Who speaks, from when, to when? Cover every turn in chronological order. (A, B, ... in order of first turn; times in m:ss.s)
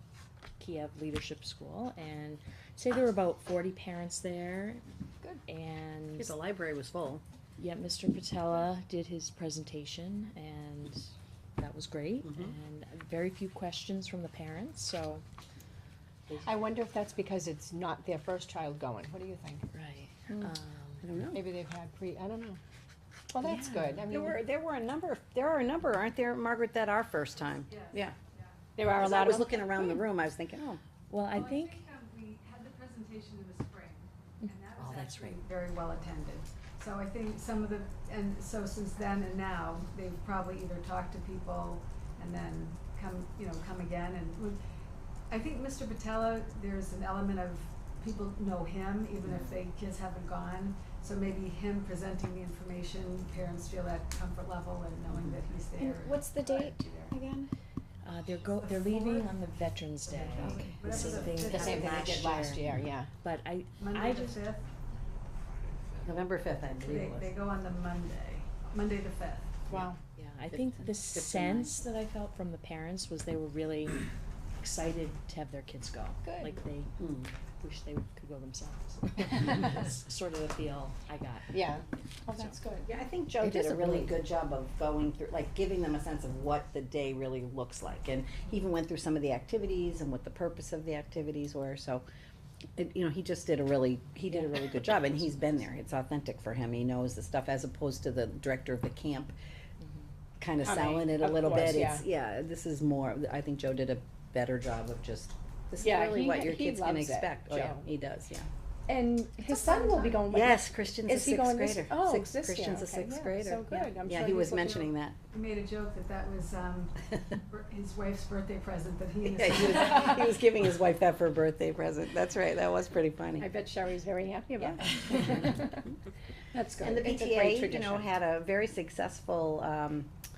0:00.6-0:06.4 A
0:06.2-0:07.2 B
0:07.6-0:15.2 A
0:12.2-0:12.6 B
0:16.4-0:19.7 C
0:19.7-0:21.0 A
0:20.3-0:21.4 B
0:21.3-0:22.6 C
0:23.3-0:24.4 C
0:23.4-0:24.0 A
0:24.1-0:28.2 B
0:27.7-0:28.6 D
0:28.8-0:30.0 C
0:29.0-0:30.8 B
0:31.1-0:31.8 A
0:31.3-0:44.6 D
0:34.8-0:35.0 B
0:45.3-0:57.2 D
0:55.1-0:55.4 B
0:55.8-0:57.5 E
0:58.0-1:02.5 A
0:58.4-0:59.4 D
1:00.0-1:02.0 D
1:00.4-1:01.1 B
1:01.5-1:03.1 C
1:01.5-1:02.2 E
1:03.2-1:04.5 A
1:03.8-1:04.7 D
1:06.0-1:07.3 B
1:06.8-1:09.6 D
1:09.7-1:10.0 C
1:10.2-1:21.6 A
1:10.5-1:11.8 B
1:16.2-1:16.6 C
1:17.0-1:17.3 B
1:21.5-1:24.1 C
1:22.2-1:22.6 A
1:22.8-1:32.0 B
1:32.8-1:39.3 B
1:40.4-1:48.5 B
1:40.6-1:42.0 C
1:45.8-1:47.9 C
1:48.9-1:54.8 C
1:49.5-1:50.2 D
1:50.2-1:55.2 B
1:54.5-2:00.2 D
1:59.2-2:03.5 B
2:03.4-2:05.9 C
2:04.6-2:05.6 B
2:06.5-2:08.1 C
2:06.8-2:10.1 B